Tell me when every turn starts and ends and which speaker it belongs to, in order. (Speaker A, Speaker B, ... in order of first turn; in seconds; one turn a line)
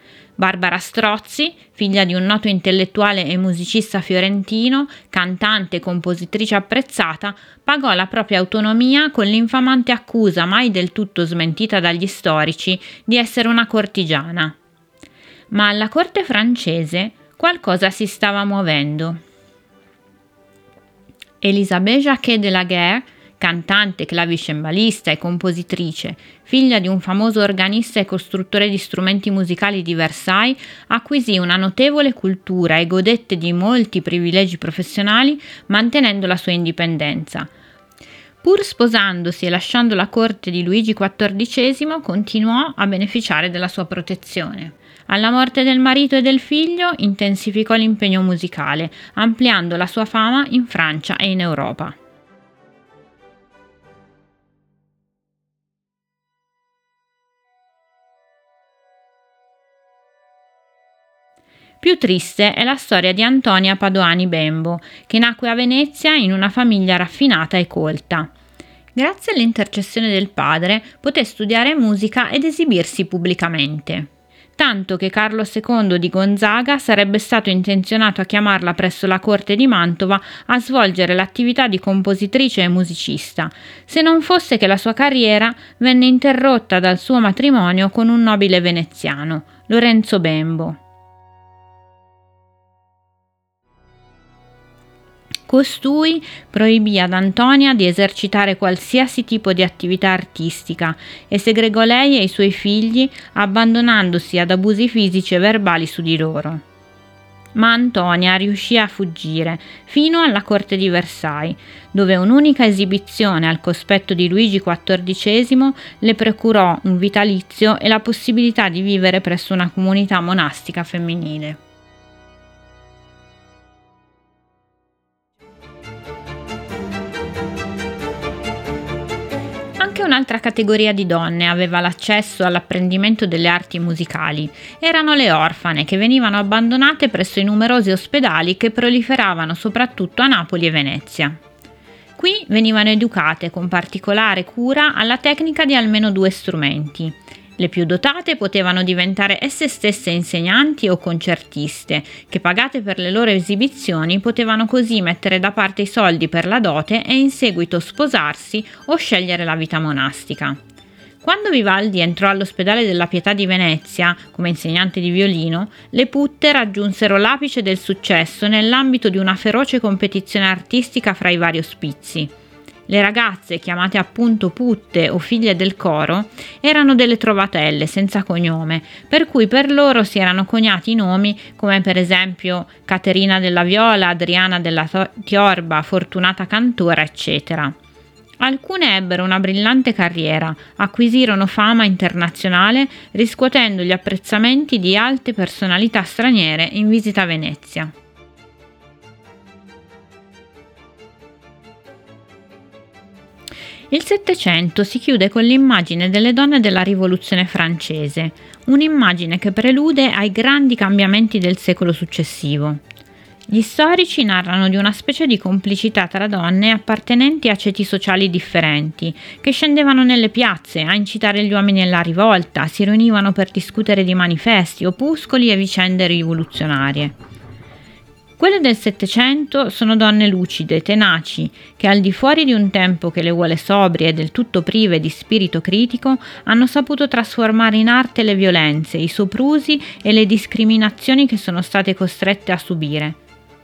Speaker A: 0.4-14.6
Speaker A: 15.5-19.2
Speaker A: 21.4-37.5
Speaker A: 38.4-51.9
Speaker A: 61.8-68.3
Speaker A: 68.9-90.8
Speaker A: 95.5-106.6
Speaker A: 107.5-121.6
Speaker A: 129.8-141.4
Speaker A: 142.2-160.6
Speaker A: 161.2-172.3
Speaker A: 172.9-187.7
Speaker A: 188.4-197.9
Speaker A: 203.9-212.8
Speaker A: 213.5-227.1
Speaker A: 228.4-243.2